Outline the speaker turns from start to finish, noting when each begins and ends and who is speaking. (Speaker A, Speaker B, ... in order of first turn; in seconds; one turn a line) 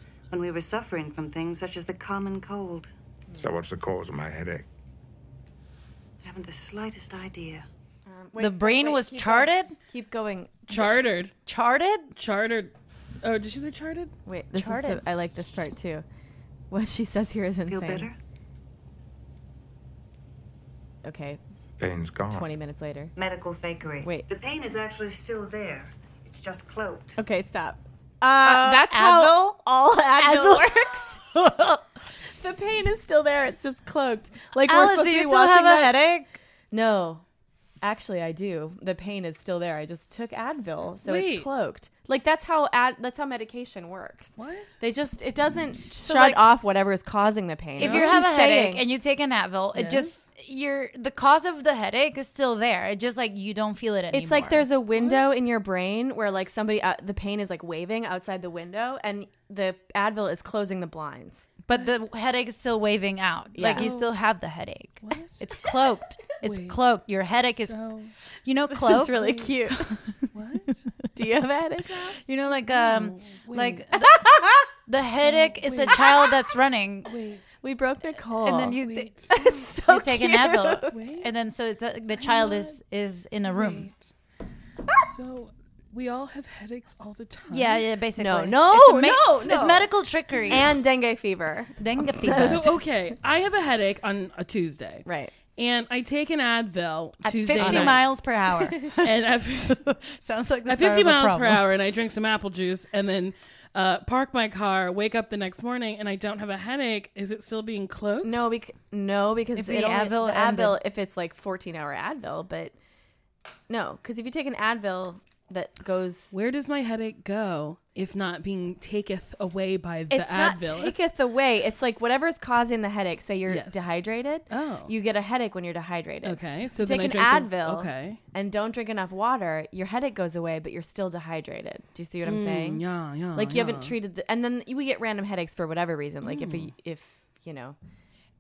Speaker A: 0.3-2.9
Speaker B: 3.4-4.7
Speaker A: 6.2-7.7
Speaker C: 8.1-10.8
Speaker D: 8.4-9.7
Speaker E: 10.7-11.3
Speaker D: 11.4-12.1
Speaker E: 12.1-12.7
Speaker E: 13.2-14.1
Speaker C: 14.2-16.0
Speaker D: 14.5-15.0
Speaker C: 16.7-18.1
Speaker A: 17.7-18.2
Speaker C: 21.0-21.4
Speaker B: 21.8-22.5
Speaker C: 22.3-23.1
Speaker A: 23.1-27.2
Speaker C: 27.2-31.2
Speaker D: 28.4-29.6
Speaker D: 30.2-31.8
Speaker C: 32.4-35.9
Speaker D: 34.6-36.3
Speaker C: 36.7-37.2
Speaker C: 37.8-48.8
Speaker E: 41.0-41.5
Speaker E: 44.4-44.7
Speaker D: 46.0-46.5
Speaker E: 47.8-48.2
Speaker D: 47.8-54.7
Speaker C: 49.8-50.0
Speaker C: 54.1-61.5
Speaker E: 54.9-55.4
Speaker D: 61.7-67.8
Speaker C: 63.5-63.9
Speaker E: 63.6-64.1
Speaker E: 65.0-65.4
Speaker E: 66.3-66.8
Speaker E: 67.5-68.1
Speaker D: 68.4-70.2
Speaker C: 68.7-69.9
Speaker E: 70.3-70.8
Speaker C: 71.1-72.2
Speaker D: 72.2-77.1
Speaker E: 72.7-73.8
Speaker C: 73.9-74.7
Speaker E: 75.2-76.2
Speaker E: 77.1-77.5
Speaker C: 77.6-78.8
Speaker D: 78.4-83.9
Speaker E: 78.8-79.4
Speaker C: 79.3-80.9
Speaker E: 80.9-81.3
Speaker E: 82.1-82.7
Speaker E: 83.5-84.1
Speaker E: 85.0-87.8
Speaker D: 87.5-90.7
Speaker C: 88.2-89.9
Speaker C: 90.5-92.7
Speaker D: 91.8-92.8
Speaker E: 92.3-95.0
Speaker C: 95.0-95.3
Speaker E: 95.5-98.1
Speaker D: 97.2-99.1
Speaker C: 97.6-98.0
Speaker E: 99.0-99.8
Speaker D: 99.6-101.6
Speaker E: 100.7-108.4
Speaker C: 108.2-112.7
Speaker D: 109.5-110.8
Speaker C: 113.7-116.3
Speaker E: 116.3-121.0
Speaker C: 120.1-132.8
Speaker E: 123.5-123.8
Speaker E: 124.5-124.9
Speaker E: 126.2-128.2
Speaker E: 132.2-134.0
Speaker C: 133.3-137.8
Speaker E: 136.2-136.7